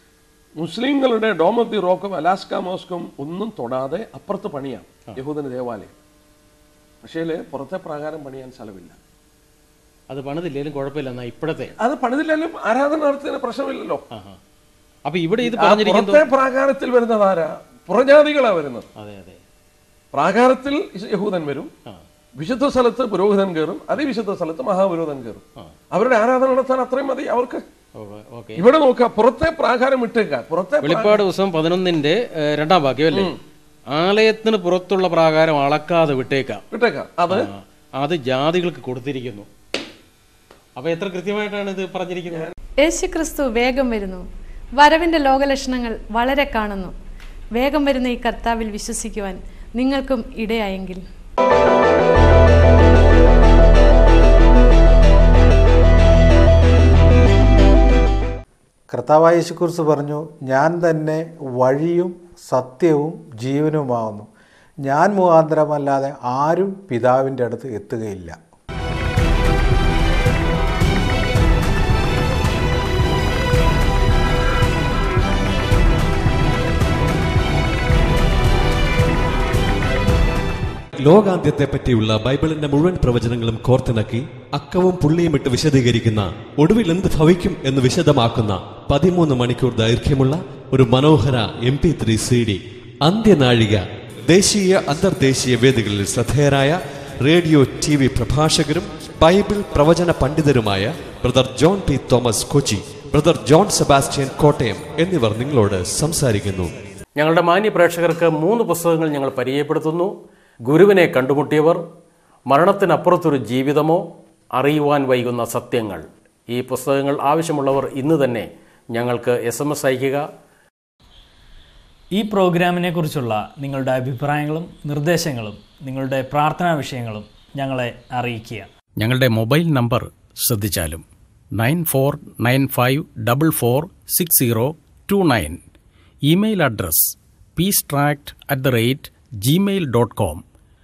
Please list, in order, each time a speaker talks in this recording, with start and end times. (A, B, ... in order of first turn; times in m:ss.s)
0:00.6-0:05.9 A
0:07.0-0:09.0 A
0:10.1-0:11.7 B
0:11.8-0:14.0 A
0:14.1-0:14.4 B
0:15.0-0:16.3 B
0:15.4-0:18.9 A
0:19.0-0:19.4 B
0:20.1-0:21.7 A
0:22.4-0:27.6 A
0:28.0-0:28.6 B
0:28.6-0:31.2 A
0:30.8-0:33.3 B
0:33.9-0:36.6 B
0:36.7-0:37.5 A
0:37.3-0:39.5 B
0:40.8-0:42.5 B
0:42.8-0:44.2 C
0:44.8-0:46.9 C
0:47.6-0:51.0 C
0:58.9-1:04.3 D
1:04.8-1:08.4 D
1:21.0-1:46.7 E
1:47.2-1:50.1 B
1:50.6-1:51.8 B
1:52.5-1:54.0 B
1:54.6-2:00.2 B
2:02.1-2:08.7 F
2:09.0-2:11.0 B
2:11.6-2:15.6 B
2:16.3-2:20.4 B